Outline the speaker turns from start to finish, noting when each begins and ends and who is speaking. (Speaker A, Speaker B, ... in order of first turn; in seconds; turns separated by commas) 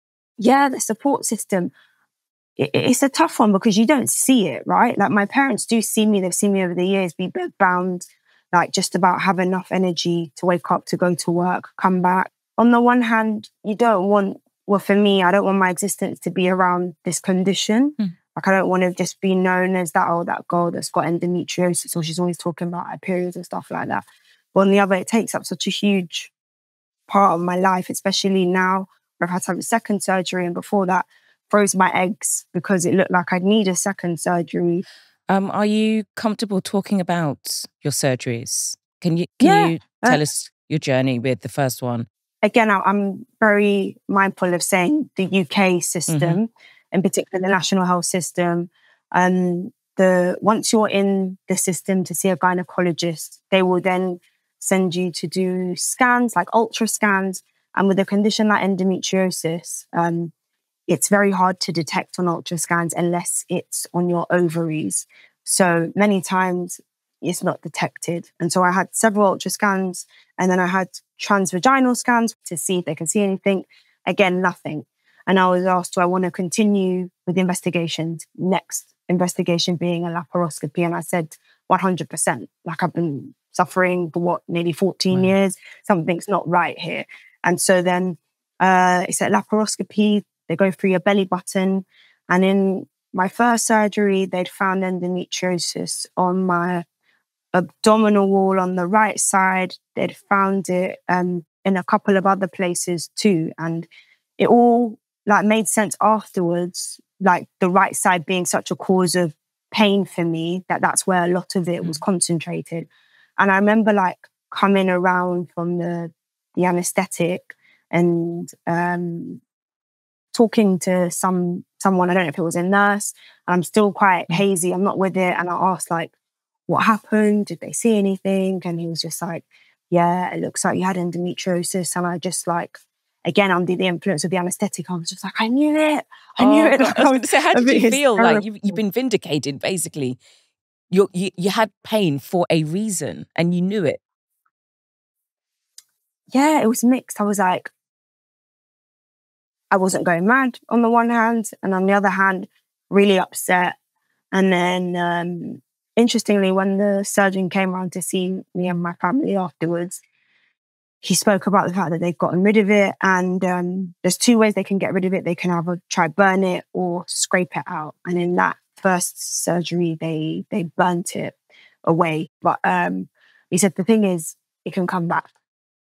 Speaker A: 0.4-1.7, Speaker A: 2.6-24.0, Speaker A: 24.5-26.3, Speaker A: 27.1-34.8, Speaker B: 35.3-42.1, Speaker A: 39.4-40.2, Speaker A: 42.4-60.3, Speaker B: 46.1-46.4, Speaker A: 60.9-96.8, Speaker A: 97.5-119.4, Speaker A: 120.3-126.1, Speaker A: 126.7-138.8, Speaker B: 136.4-140.2, Speaker B: 140.9-144.0, Speaker A: 146.3-147.7, Speaker A: 149.7-153.7, Speaker A: 154.3-160.0, Speaker A: 161.0-175.3